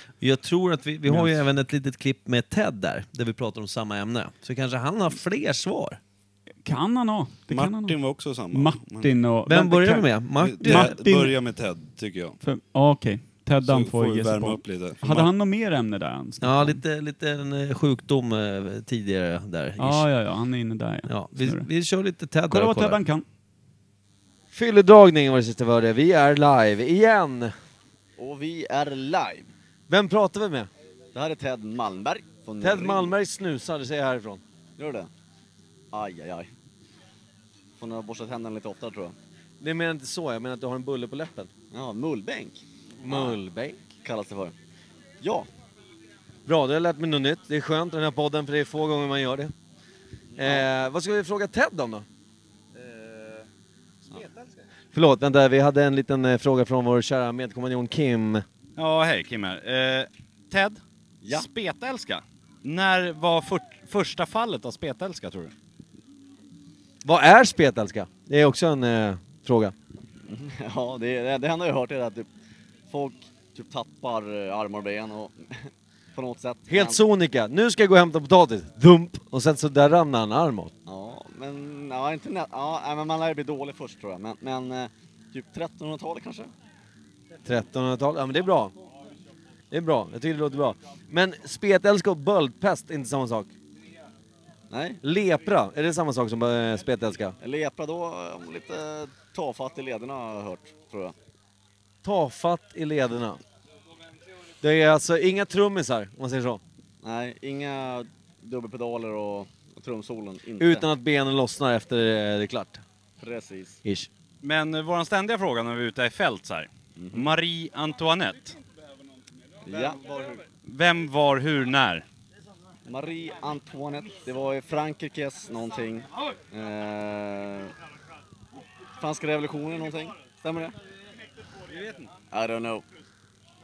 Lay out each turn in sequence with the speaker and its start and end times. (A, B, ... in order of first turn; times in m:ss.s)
0:00.2-0:06.0 A
0:01.1-0:01.4 B
0:06.6-0:11.4 B
0:07.5-0:09.1 C
0:09.5-0:11.1 A
0:10.4-0:12.4 C
0:12.4-0:16.8 B
0:13.6-0:15.3 C
0:16.4-0:20.1 A
0:19.8-0:21.7 B
0:21.1-0:23.0 A
0:22.5-0:23.2 B
0:24.5-0:27.6 A
0:28.2-0:29.5 D
0:29.9-0:30.7 A
0:31.1-0:33.1 D
0:32.6-0:34.4 A
0:34.8-0:35.1 D
0:35.9-0:36.5 D
0:37.8-0:39.2 D
0:39.6-0:41.5 A
0:41.7-0:43.4 D
0:43.0-0:43.8 A
0:44.0-0:44.6 D
0:45.2-0:45.5 D
0:46.5-0:49.5 A
0:50.4-0:52.1 A
0:50.4-0:50.7 D
0:52.9-0:53.4 D
0:54.1-0:54.5 E
0:54.9-0:58.4 A
0:58.8-1:05.5 E
1:07.0-1:09.8 A
1:10.3-1:12.3 D
1:12.9-1:17.0 D
1:16.7-1:20.7 A
1:20.9-1:26.5 D
1:27.4-1:28.7 A
1:29.7-1:33.5 A
1:34.7-1:35.0 D
1:35.0-1:37.4 A
1:37.4-1:41.2 D
1:42.0-1:43.4 A
1:44.6-1:46.6 A
1:47.0-1:50.9 D
1:50.6-1:52.8 A
1:53.2-1:53.8 D
1:53.8-1:54.1 A
1:54.4-1:58.6 E
1:57.0-1:57.3 D
1:59.6-2:00.4 D
2:00.6-2:02.1 E
2:02.9-2:07.7 D
2:09.0-2:10.8 D
2:11.7-2:12.1 E
2:12.3-2:12.8 D